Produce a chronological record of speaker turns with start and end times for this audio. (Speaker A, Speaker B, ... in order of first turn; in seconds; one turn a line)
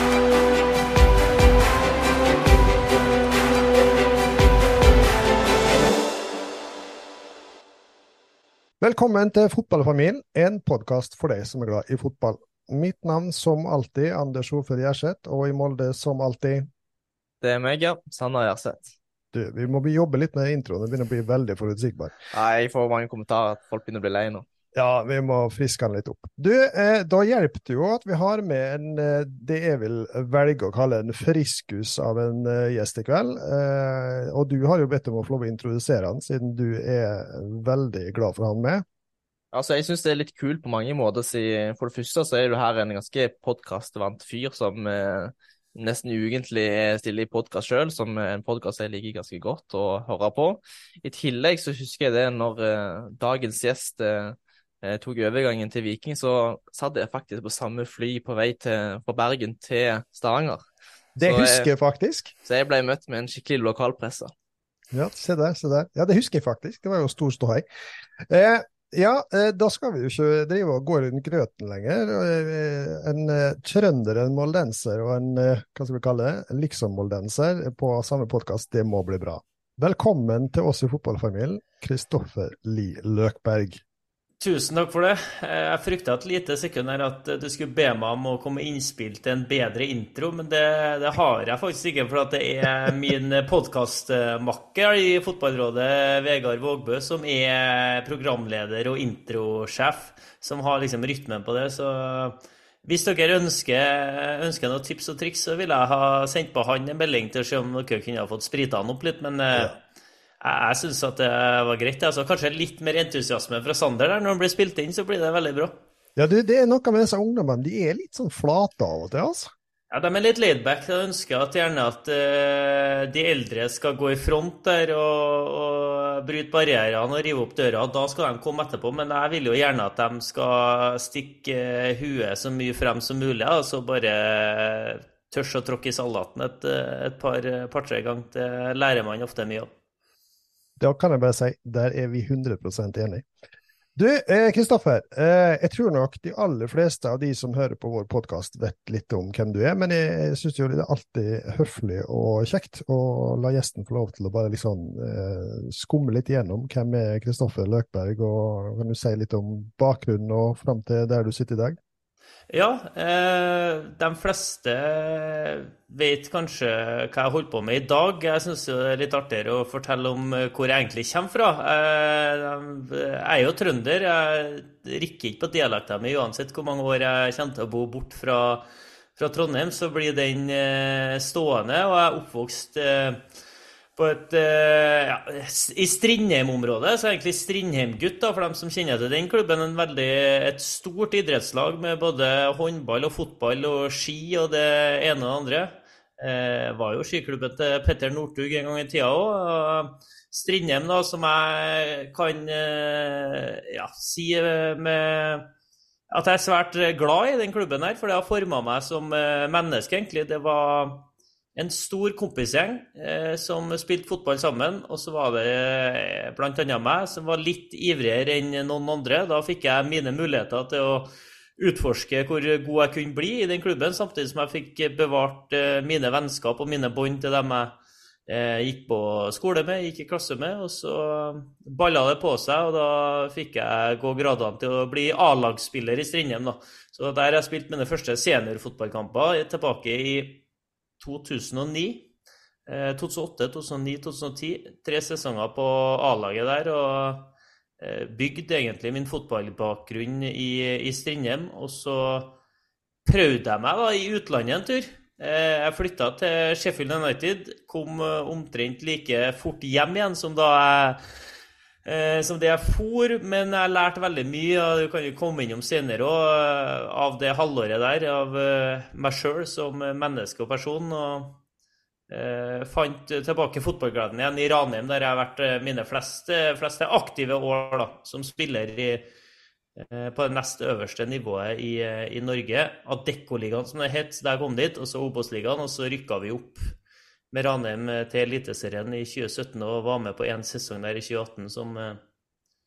Speaker A: 8.8-16.7
Speaker B: 17.4-18.9
Speaker A: 19.3-22.1
Speaker B: 22.3-24.4
Speaker A: 24.7-38.8
Speaker B: 39.5-60.6
Speaker A: 61.1-62.3
Speaker B: 61.2-61.7
Speaker B: 62.4-64.3
Speaker A: 64.9-67.6
Speaker A: 68.2-83.8
Speaker C: 84.4-109.8
Speaker C: 110.4-115.7
Speaker A: 116.2-119.5
Speaker C: 119.9-139.7
Speaker A: 140.8-143.2
Speaker A: 143.9-161.8
Speaker C: 162.5-178.6
Speaker C: 179.2-183.2
Speaker C: 183.9-205.5
Speaker C: 206.1-227.7
Speaker C: 228.3-240.4
Speaker C: 241.0-242.1
Speaker C: 242.7-252.3
Speaker C: 253.0-261.0
Speaker C: 261.8-271.4
Speaker C: 272.1-279.1
Speaker C: 279.8-286.7
Speaker C: 287.3-292.0